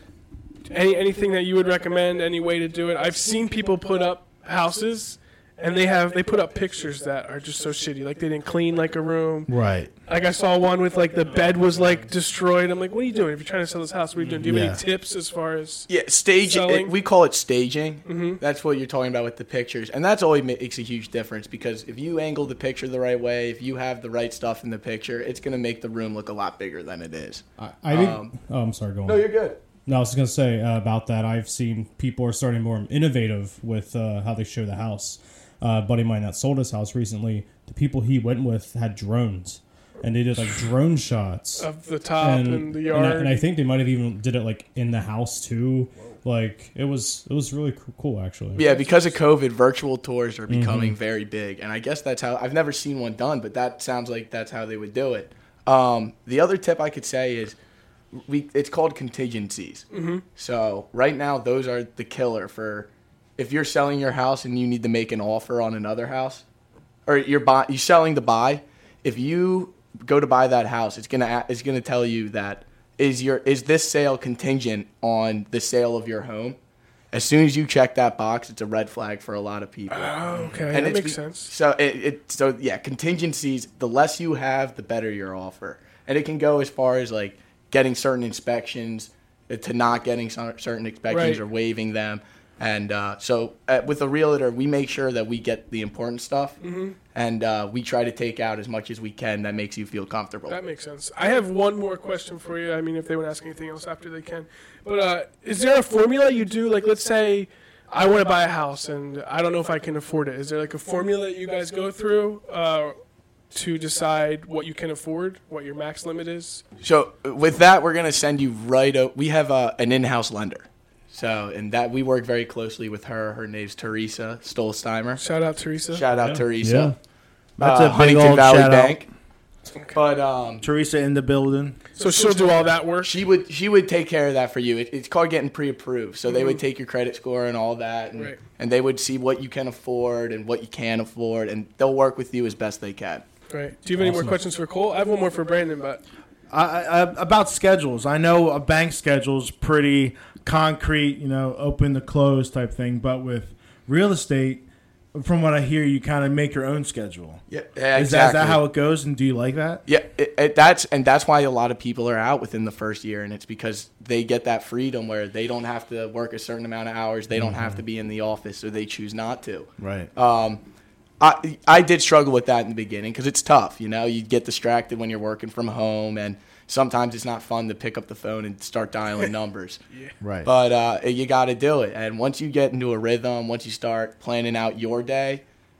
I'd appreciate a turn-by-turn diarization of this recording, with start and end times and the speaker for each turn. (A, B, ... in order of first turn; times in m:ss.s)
0:00.7-0:09.5 A
0:09.5-0:09.9 B
0:10.1-0:15.9 A
0:11.2-0:12.1 C
0:14.2-0:14.7 C
0:14.4-0:14.8 B
0:15.9-0:28.4 D
0:16.4-0:16.9 A
0:18.0-0:18.4 A
0:27.6-0:29.3 C
0:29.0-0:29.6 D
0:29.8-0:48.7 C
0:41.6-0:43.5 A
0:48.5-0:57.6 D
0:48.6-0:49.1 A
0:50.5-0:50.9 C
0:58.1-1:06.4 D
0:59.9-1:00.2 A
1:07.0-1:16.6 D
1:17.1-1:20.2 D
1:19.9-1:21.5 A
1:20.7-1:36.6 D
1:31.1-1:31.4 A
1:36.6-1:37.0 A
1:37.1-1:40.6 D
1:40.5-1:52.9 A
1:53.5-1:56.6 A
1:56.8-2:05.2 D
2:05.2-2:06.0 A
2:05.9-2:06.9 D
2:06.1-2:06.9 C
2:07.6-2:09.0 B
2:07.6-2:09.1 D
2:09.9-2:10.6 D
2:10.6-2:11.8 B
2:12.0-2:13.1 A
2:13.0-2:23.2 D
2:16.3-2:16.6 A
2:23.5-2:26.0 A
2:24.0-2:24.4 C
2:26.5-2:37.4 B
2:37.5-2:38.6 D
2:37.9-2:39.8 B
2:39.8-2:50.6 D
2:47.3-2:47.8 B
2:49.8-2:50.1 B
2:51.2-2:59.8 D
3:00.2-3:00.5 B
3:00.4-3:05.4 D